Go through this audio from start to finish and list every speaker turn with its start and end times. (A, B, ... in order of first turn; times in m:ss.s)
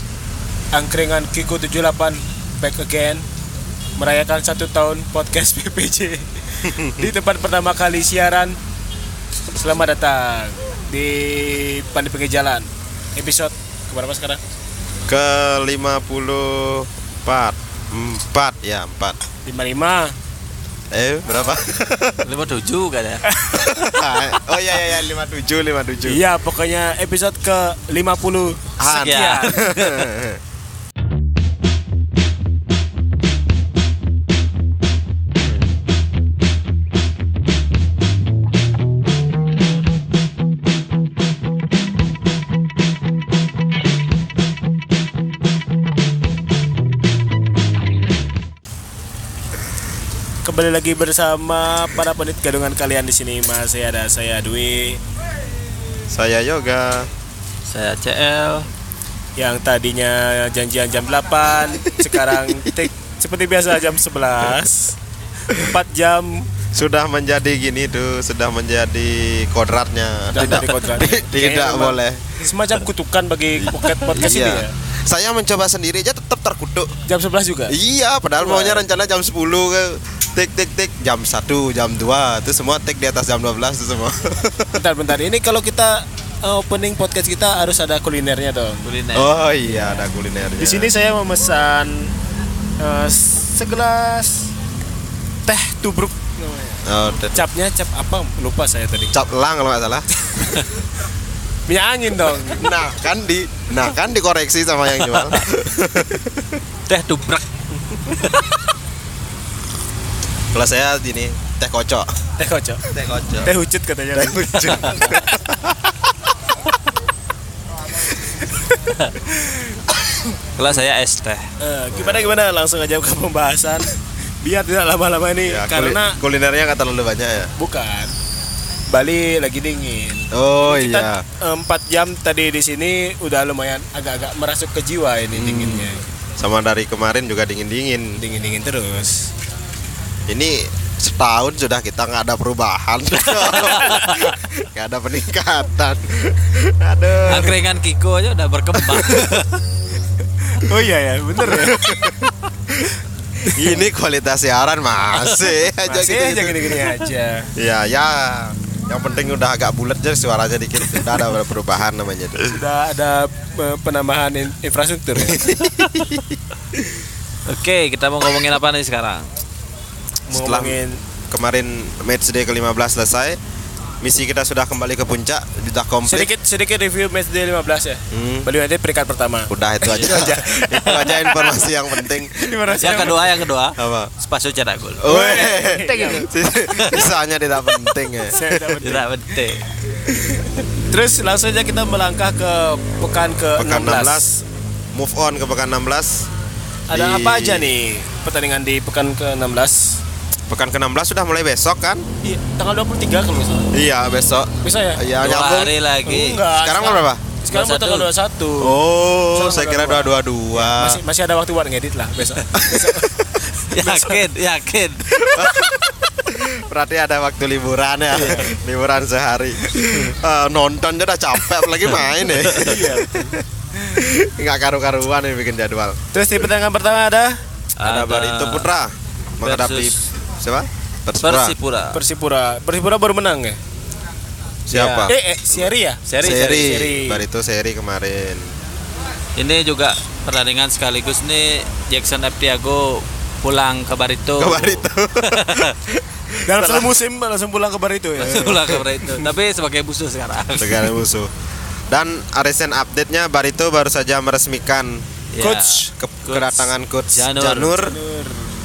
0:00.7-0:03.2 A
0:04.0-0:08.6 A
0:06.6-0:07.1 B
0:09.5-0:14.4 A
0:15.1-0:19.2 B
0:19.4-0:20.1 A
0:20.9-0:22.3 B
0:22.2-0:23.3 C
0:23.3-0:24.1 A
0:23.5-0:26.2 B
0:26.0-0:29.6 A
0:28.8-0:30.4 B
0:28.8-0:30.1 C
0:50.4-0:55.0 A
0:56.1-0:57.1 B
0:57.6-0:58.7 C
0:59.4-1:06.5 A
1:01.6-1:02.9 B
1:05.5-1:05.8 B
1:06.7-1:12.4 B
1:10.3-1:14.7 A
1:14.1-1:17.0 B
1:17.0-1:17.8 A
1:17.7-1:24.7 B
1:18.4-1:18.8 A
1:24.7-1:28.9 A
1:28.8-1:29.3 C
1:29.1-1:30.9 B
1:30.6-1:32.1 A
1:32.8-1:34.5 A
1:35.4-1:39.1 A
1:36.8-1:37.5 B
1:39.1-1:40.1 B
1:40.3-1:40.6 A
1:41.7-1:42.7 A
1:42.5-1:46.6 B
1:45.0-1:45.4 C
1:46.9-1:47.4 C
1:50.5-1:52.1 B
1:52.4-1:52.8 A
1:52.8-1:53.5 B
1:53.4-1:55.4 A
1:54.1-1:56.1 B
1:54.8-1:55.2 C
1:58.3-1:59.9 A
2:00.6-2:01.5 C
2:01.6-2:06.2 A
2:01.9-2:02.4 B
2:05.4-2:07.5 B
2:07.6-2:08.1 A
2:08.9-2:16.0 A
2:10.3-2:11.2 B
2:15.4-2:15.8 C
2:16.4-2:18.2 B
2:18.2-2:19.3 A
2:20.3-2:27.6 B
2:23.4-2:24.2 C
2:23.6-2:24.3 A
2:27.2-2:29.6 C
2:30.4-2:32.0 A
2:31.4-2:32.9 B
2:33.4-2:33.7 A
2:33.4-2:36.9 B
2:35.8-2:37.5 A
2:37.6-2:42.6 B
2:42.5-2:45.6 A
2:45.2-2:46.4 B
2:47.4-2:49.3 C
2:50.3-2:51.0 A
2:50.3-2:50.8 B
2:51.3-2:53.4 B
2:54.0-2:56.3 B
2:56.0-3:03.4 A
2:58.1-2:58.5 B
2:59.5-3:03.0 B
3:02.7-3:05.1 C
3:03.7-3:04.1 B
3:05.0-3:08.4 B
3:05.1-3:06.3 A
3:06.8-3:07.1 C
3:08.2-3:09.1 A
3:08.8-3:09.7 C
3:10.8-3:14.4 A
3:13.6-3:14.3 B
3:14.9-3:16.3 B
3:16.9-3:20.0 A
3:16.9-3:17.7 B
3:20.5-3:22.0 B
3:22.2-3:23.7 A
3:23.7-3:25.8 B
3:24.6-3:25.0 A
3:25.2-3:26.4 C
3:26.0-3:28.8 A
3:26.5-3:27.3 B
3:27.5-3:28.1 C
3:28.6-3:31.0 B
3:29.3-3:34.2 A
3:32.6-3:33.1 B
3:33.7-3:35.2 C
3:35.2-3:46.0 B
3:38.1-3:38.5 C
3:39.8-3:40.1 A
3:42.4-3:42.8 C
3:42.5-3:43.4 A
3:46.1-3:47.4 A
3:47.8-3:48.7 C
3:47.8-3:51.6 B
3:49.4-3:49.9 C
3:51.2-3:52.0 C
3:51.9-3:53.6 A
3:54.7-3:55.1 C
3:54.7-3:55.7 B
3:55.1-3:57.2 A
3:56.0-3:56.7 C
3:56.2-3:58.5 B
3:59.4-4:05.7 C
4:04.4-4:06.9 B
4:06.4-4:09.2 A
4:08.2-4:11.0 C
4:08.4-4:08.7 B
4:10.6-4:11.3 B
4:11.9-4:18.0 B
4:15.3-4:17.9 C
4:17.8-4:18.5 A